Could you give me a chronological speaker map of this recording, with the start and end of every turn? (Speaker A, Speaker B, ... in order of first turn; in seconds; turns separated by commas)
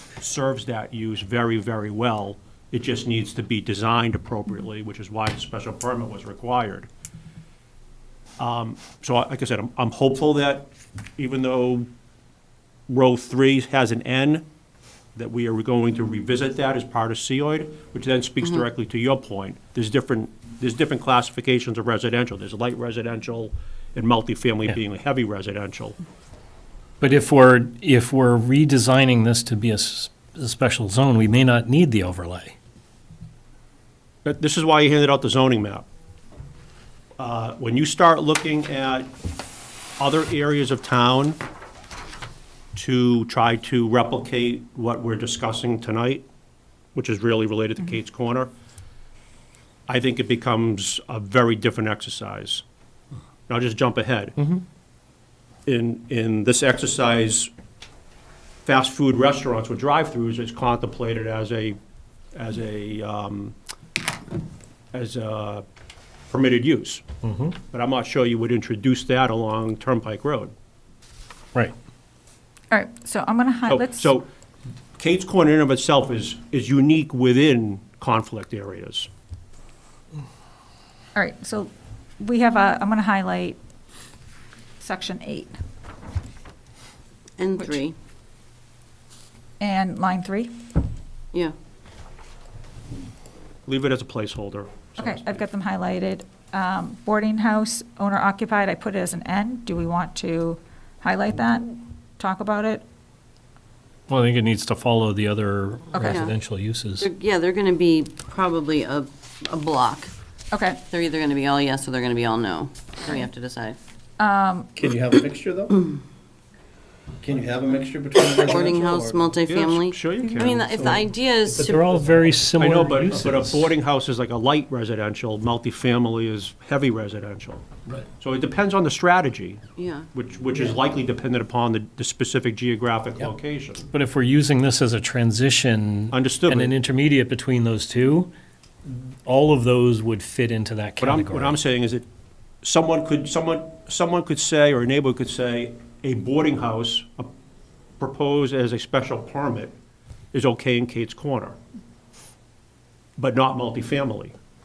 Speaker A: 0.2-6.9, Speaker A: 8.4-11.9, Speaker A: 12.9-14.4, Speaker A: 15.2-26.0, Speaker B: 27.0-32.5, Speaker A: 34.2-35.8, Speaker A: 37.2-39.1, Speaker A: 40.0-41.4, Speaker A: 42.7-46.2, Speaker A: 46.9-48.5, Speaker A: 49.9-52.6, Speaker A: 53.5-54.4, Speaker A: 55.7-57.5, Speaker A: 58.6-61.8, Speaker A: 62.3-63.5, Speaker A: 64.9-65.6, Speaker A: 66.3-67.0, Speaker B: 67.2-67.5, Speaker A: 67.7-70.5, Speaker C: 72.7-74.1, Speaker A: 73.7-74.3, Speaker A: 75.0-79.1, Speaker C: 81.1-83.6, Speaker C: 84.8-85.5, Speaker D: 87.4-87.9, Speaker C: 87.5-87.8, Speaker C: 89.6-90.5, Speaker A: 93.7-95.4, Speaker C: 95.0-102.8, Speaker B: 104.1-107.1, Speaker D: 105.9-106.3, Speaker D: 107.0-110.1, Speaker C: 110.5-110.8, Speaker D: 110.9-113.8, Speaker C: 114.2-114.7, Speaker E: 114.8-115.7, Speaker E: 117.2-119.5, Speaker D: 118.4-121.8, Speaker A: 119.5-120.7, Speaker C: 120.2-120.5, Speaker E: 120.5-122.2, Speaker B: 121.5-123.7, Speaker A: 122.6-127.7, Speaker A: 128.2-129.6, Speaker D: 129.8-130.1, Speaker A: 130.1-133.8, Speaker B: 133.9-138.3, Speaker A: 136.1-136.7, Speaker B: 138.8-141.6, Speaker A: 141.0-142.1, Speaker A: 142.6-147.3, Speaker A: 148.0-149.7, Speaker A: 150.3-151.6, Speaker A: 153.2-154.3